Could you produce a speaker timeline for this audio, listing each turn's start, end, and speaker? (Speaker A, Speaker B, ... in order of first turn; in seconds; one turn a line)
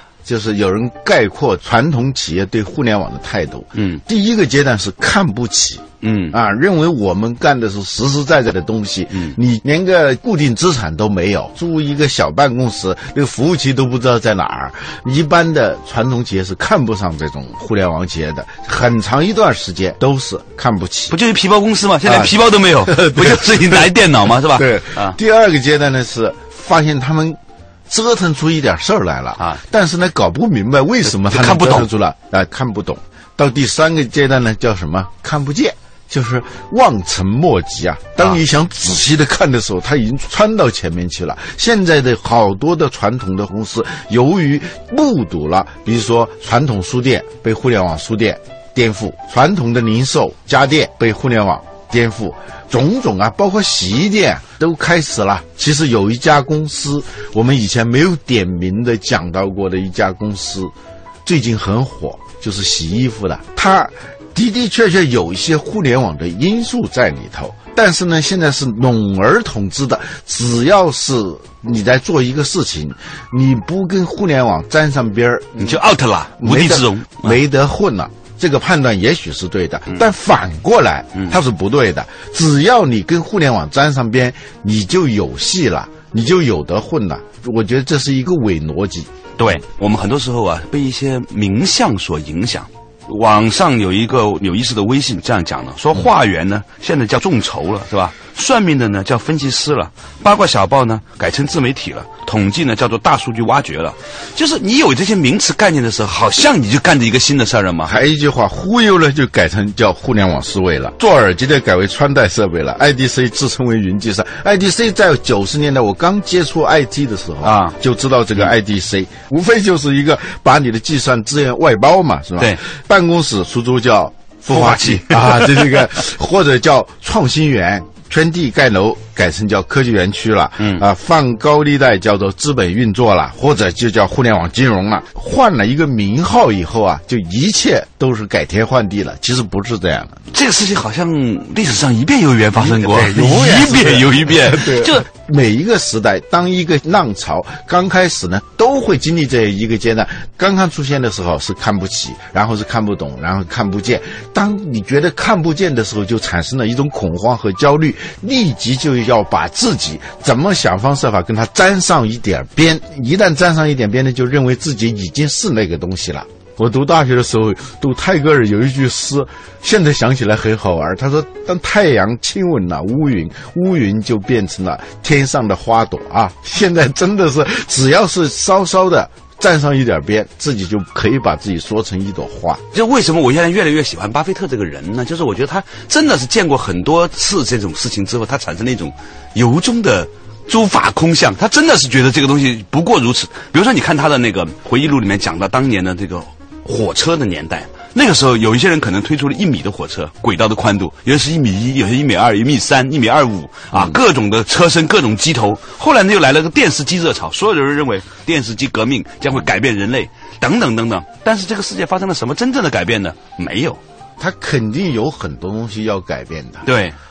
Speaker A: 0.2-21.1
Speaker B: 3.8-4.0
Speaker B: 6.0-6.4
Speaker B: 9.1-9.4
Speaker B: 21.1-25.2
Speaker A: 22.0-22.3
Speaker A: 22.8-23.9
Speaker A: 24.5-60.7
Speaker B: 31.1-31.9
Speaker A: 61.2-75.8
Speaker B: 75.6-77.4
Speaker A: 76.4-89.1
Speaker B: 89.4-108.0
Speaker A: 107.8-140.2
Speaker B: 117.4-117.8
Speaker B: 124.5-125.8
Speaker B: 140.3-145.1
Speaker A: 142.6-182.6
Speaker B: 182.7-213.8
Speaker A: 203.7-204.0
Speaker A: 214.2-216.7
Speaker B: 216.7-216.9